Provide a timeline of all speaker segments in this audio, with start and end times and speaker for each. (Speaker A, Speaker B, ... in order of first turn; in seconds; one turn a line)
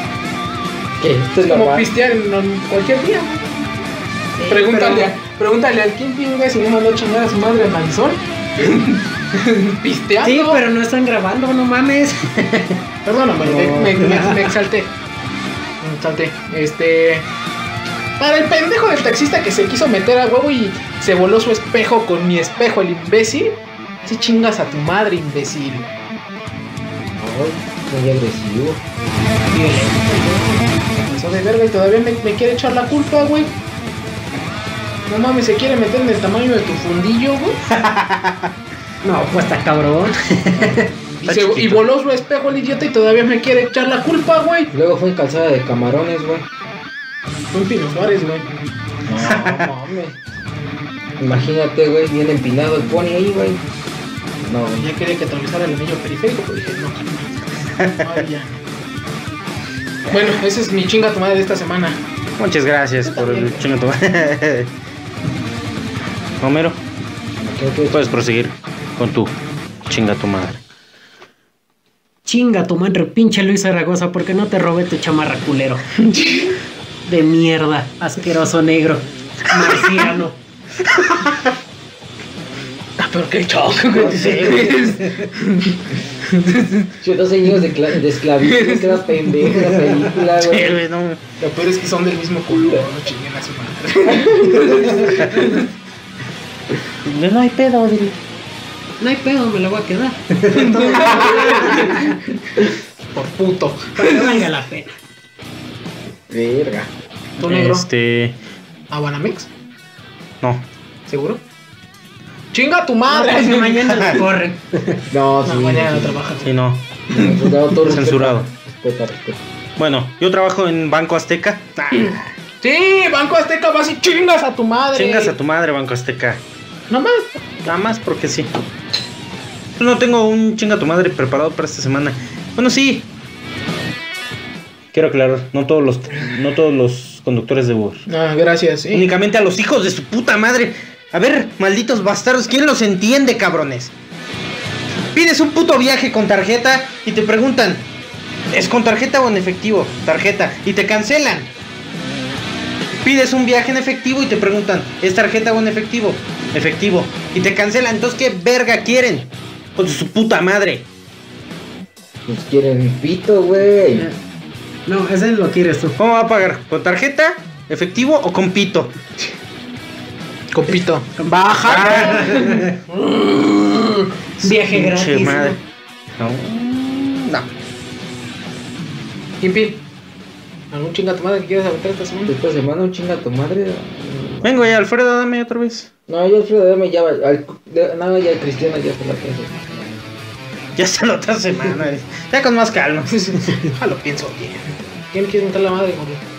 Speaker A: 1.0-1.9
Speaker B: 1.4-3.5
Speaker C: 4.4-5.1
Speaker B: 4.5-10.6
Speaker C: 10.2-12.8
Speaker B: 13.0-14.9
Speaker C: 13.4-14.5
Speaker B: 15.8-17.3
Speaker B: 18.2-25.9
Speaker A: 27.2-28.8
Speaker C: 29.5-30.7
Speaker B: 30.9-33.5
Speaker B: 35.1-37.6
Speaker D: 37.7-38.5
Speaker C: 39.0-40.9
Speaker D: 41.2-41.9
Speaker B: 41.2-44.7
Speaker A: 44.7-46.5
Speaker B: 47.5-48.5
Speaker A: 49.1-50.2
Speaker D: 49.2-49.7
Speaker A: 51.2-53.6
Speaker A: 54.4-54.9
Speaker B: 54.8-58.6
Speaker B: 60.1-62.0
Speaker D: 62.4-64.7
Speaker B: 63.0-63.6
Speaker D: 66.4-66.8
Speaker A: 67.4-68.0
Speaker D: 67.9-69.3
Speaker D: 69.9-70.6
Speaker C: 72.2-75.9
Speaker B: 76.0-76.6
Speaker C: 77.0-80.4
Speaker B: 83.0-86.9
Speaker D: 83.9-85.0
Speaker A: 87.0-90.8
Speaker B: 88.4-89.5
Speaker D: 90.3-91.2
Speaker B: 91.4-95.6
Speaker A: 94.3-94.8
Speaker D: 97.0-98.2
Speaker C: 99.0-102.0
Speaker B: 100.5-102.1
Speaker D: 100.8-101.8
Speaker B: 103.1-104.5
Speaker C: 103.9-104.9
Speaker A: 106.3-106.9
Speaker B: 107.4-107.9
Speaker D: 107.4-108.3
Speaker B: 108.9-109.5
Speaker B: 111.1-111.4
Speaker B: 112.5-114.0
Speaker C: 113.1-115.0
Speaker A: 115.1-116.2
Speaker B: 115.4-116.5
Speaker D: 116.4-116.9
Speaker A: 117.1-119.4
Speaker B: 117.1-117.5
Speaker D: 117.8-118.5
Speaker D: 119.8-122.3
Speaker B: 122.6-125.3
Speaker D: 124.9-126.4
Speaker B: 126.9-127.5
Speaker D: 127.6-128.5
Speaker D: 129.8-133.1
Speaker D: 134.9-138.1
Speaker B: 138.1-139.1
Speaker D: 138.9-143.9
Speaker D: 145.1-147.8
Speaker D: 148.5-151.5
Speaker D: 153.0-160.8
Speaker A: 162.2-164.1
Speaker C: 164.8-166.0
Speaker D: 166.0-168.9
Speaker B: 170.5-174.1
Speaker C: 171.2-172.8
Speaker D: 171.6-172.6
Speaker D: 174.4-175.6
Speaker C: 174.4-175.6
Speaker D: 176.2-177.5
Speaker B: 179.4-179.8
Speaker B: 180.7-182.3
Speaker A: 182.3-184.6
Speaker D: 184.4-185.9
Speaker A: 186.1-189.9
Speaker D: 190.8-193.6
Speaker B: 193.1-196.2